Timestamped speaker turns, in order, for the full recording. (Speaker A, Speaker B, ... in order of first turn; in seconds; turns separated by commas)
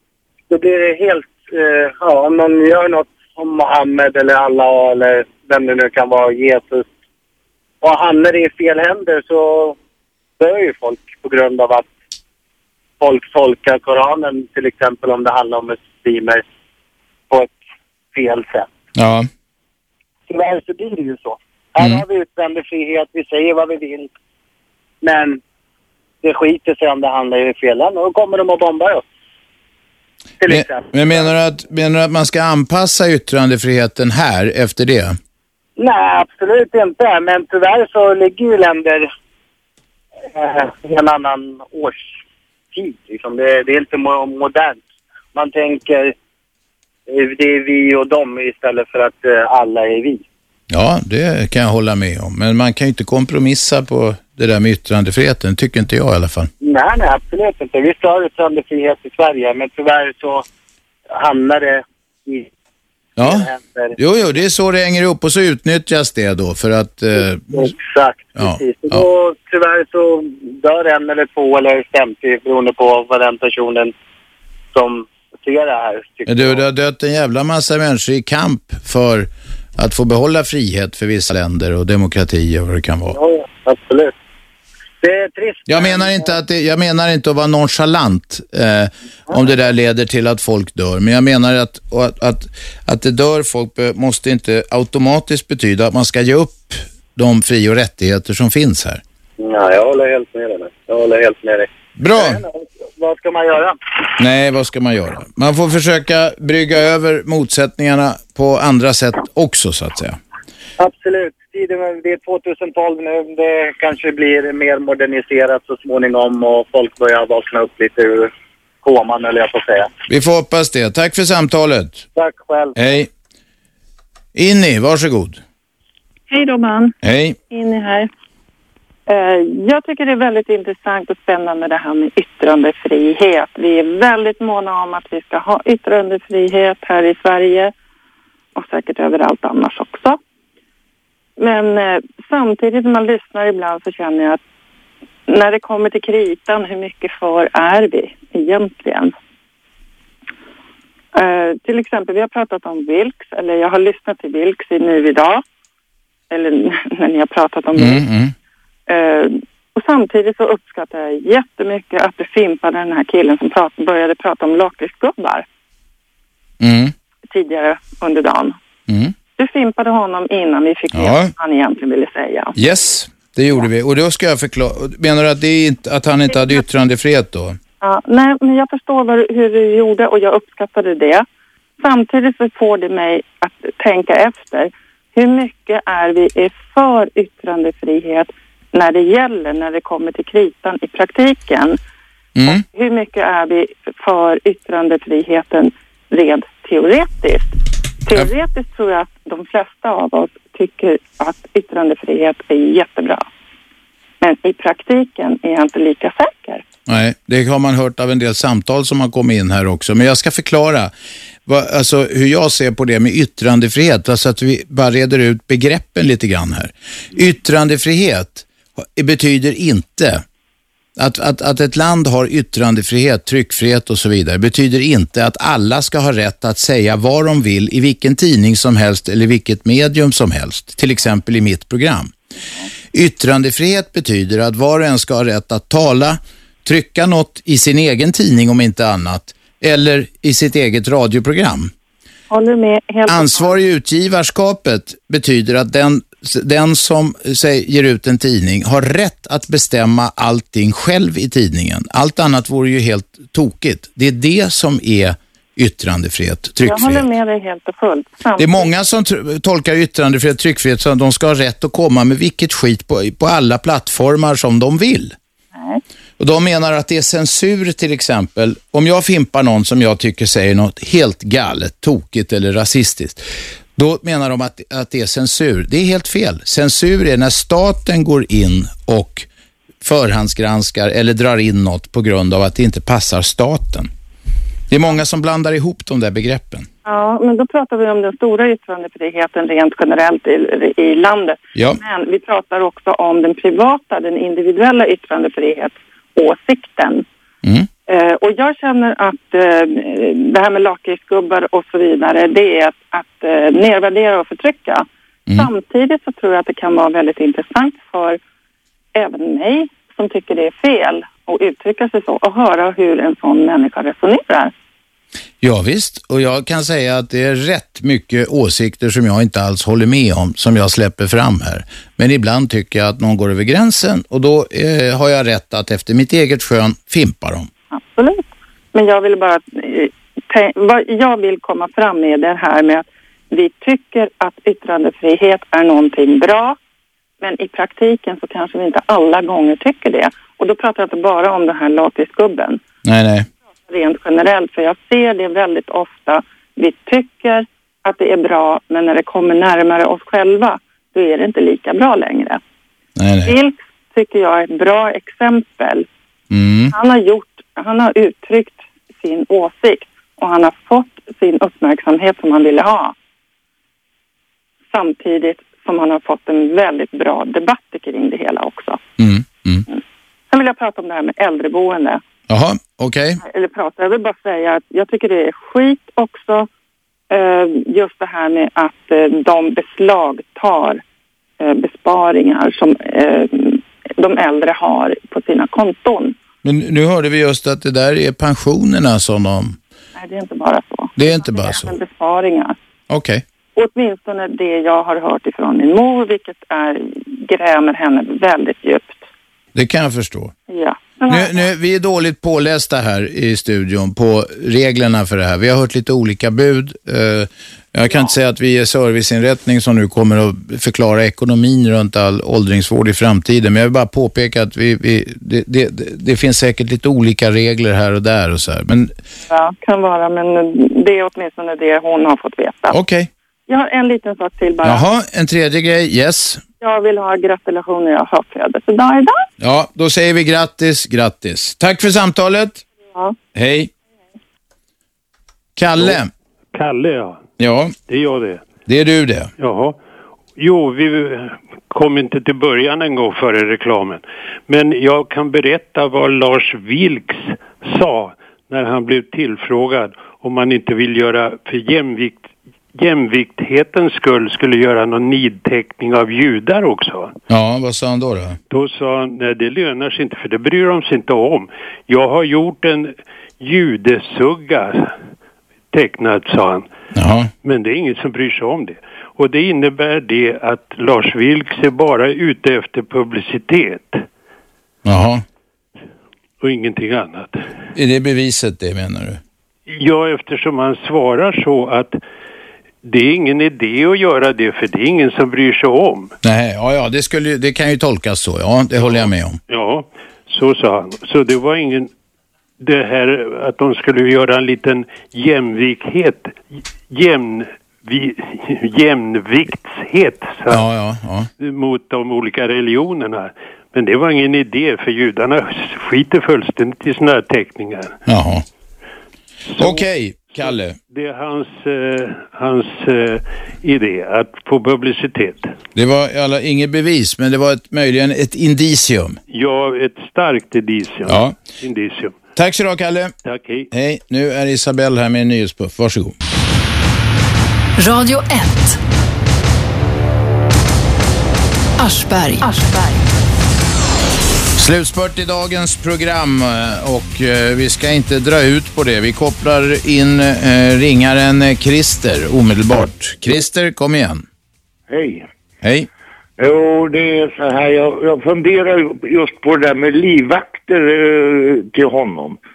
Speaker A: 0.5-6.8, Speaker A: 7.8-9.7, Speaker A: 10.4-11.9, Speaker A: 13.0-16.4, Speaker A: 18.1-18.7, Speaker B: 18.9-19.3, Speaker A: 20.3-24.1, Speaker B: 21.8-22.0, Speaker A: 25.0-25.4, Speaker A: 26.2-29.0, Speaker A: 30.4-31.3, Speaker B: 30.5-35.2, Speaker A: 35.8-39.1, Speaker A: 40.3-42.1, Speaker A: 42.7-44.8, Speaker A: 45.3-46.1, Speaker A: 47.1-50.2, Speaker B: 50.7-56.5, Speaker A: 56.6-60.4, Speaker A: 61.1-62.5, Speaker B: 63.2-63.5, Speaker A: 63.2-64.0, Speaker B: 64.0-67.5, Speaker A: 67.5-73.9, Speaker B: 68.3-69.0, Speaker A: 74.7-76.6, Speaker B: 76.3-83.2, Speaker A: 83.1-84.1, Speaker A: 85.0-86.3, Speaker B: 85.7-99.0, Speaker A: 99.4-103.8, Speaker B: 102.0-102.4, Speaker B: 104.2-110.2, Speaker A: 110.8-118.3, Speaker A: 118.8-119.9, Speaker B: 120.1-122.0, Speaker A: 122.2-122.7, Speaker B: 122.8-123.1, Speaker B: 124.3-125.4, Speaker C: 126.3-126.9, Speaker B: 127.0-127.4, Speaker C: 127.5-128.1, Speaker C: 129.1-137.7, Speaker C: 138.5-140.2, Speaker C: 141.4-144.4, Speaker C: 145.3-149.1, Speaker C: 151.1-155.4, Speaker C: 156.3-158.0, Speaker B: 157.8-158.3, Speaker C: 158.9-165.4, Speaker B: 166.6-166.9, Speaker C: 167.3-168.6, Speaker B: 168.9-169.1, Speaker C: 169.4-172.5, Speaker B: 170.9-171.3, Speaker B: 172.5-177.6, Speaker C: 177.8-181.2, Speaker C: 181.8-191.8, Speaker B: 192.3-192.6, Speaker C: 192.5-197.5, Speaker C: 198.1-203.2, Speaker C: 204.2-206.6, Speaker B: 206.9-210.9, Speaker B: 211.4-220.2, Speaker B: 221.0-232.1, Speaker B: 232.9-241.7, Speaker C: 242.3-243.6, Speaker B: 243.1-257.0, Speaker C: 256.6-258.7, Speaker B: 258.4-265.1, Speaker C: 265.5-265.8, Speaker B: 266.2-279.3, Speaker B: 279.8-283.9, Speaker B: 284.7-286.7, Speaker C: 286.8-297.0, Speaker B: 291.5-291.8, Speaker C: 297.9-304.9, Speaker C: 305.4-308.2, Speaker C: 308.9-314.5, Speaker B: 315.4-327.5, Speaker C: 327.7-336.6, Speaker C: 337.2-342.6, Speaker B: 342.8-343.3, Speaker C: 343.7-352.4, Speaker B: 352.9-353.3, Speaker C: 353.2-355.9, Speaker B: 356.3-356.7, Speaker C: 356.7-362.9, Speaker C: 364.7-368.8, Speaker B: 369.0-369.6, Speaker C: 370.3-372.0, Speaker B: 372.3-373.2, Speaker C: 373.2-376.5, Speaker C: 377.1-380.8, Speaker C: 381.4-386.1, Speaker B: 386.4-389.6, Speaker C: 389.9-392.6, Speaker B: 391.0-391.7, Speaker B: 392.9-393.2, Speaker C: 393.6-399.0, Speaker B: 399.5-400.3, Speaker C: 400.5-401.5, Speaker B: 401.1-418.9, Speaker C: 419.3-422.8, Speaker B: 422.7-423.1, Speaker C: 423.5-424.8, Speaker B: 424.6-426.4, Speaker C: 426.6-429.2, Speaker B: 429.4-432.6, Speaker B: 433.3-433.7, Speaker B: 435.6-436.1, Speaker D: 436.5-437.2, Speaker B: 437.4-437.7, Speaker D: 437.9-438.4, Speaker B: 438.6-439.3, Speaker D: 439.4-439.8, Speaker D: 440.4-457.1, Speaker B: 457.3-458.4, Speaker D: 458.5-464.9, Speaker D: 465.7-466.7, Speaker B: 466.9-467.3, Speaker D: 467.4-474.0, Speaker B: 474.8-475.2, Speaker D: 476.4-477.4, Speaker B: 477.7-479.2, Speaker D: 479.7-482.0, Speaker D: 482.8-486.1, Speaker B: 486.2-489.4, Speaker D: 488.8-491.9, Speaker D: 492.6-500.6, Speaker B: 500.5-501.3, Speaker D: 501.4-508.0, Speaker B: 508.1-508.4, Speaker D: 509.6-515.5, Speaker B: 509.6-510.8, Speaker B: 515.7-519.2, Speaker D: 519.3-522.1, Speaker B: 521.0-521.3, Speaker B: 522.4-523.1, Speaker D: 523.2-523.7, Speaker B: 523.7-526.1, Speaker E: 527.8-528.8, Speaker E: 531.8-533.1, Speaker B: 534.5-544.2, Speaker F: 544.9-545.3, Speaker B: 545.6-545.9, Speaker F: 546.4-552.4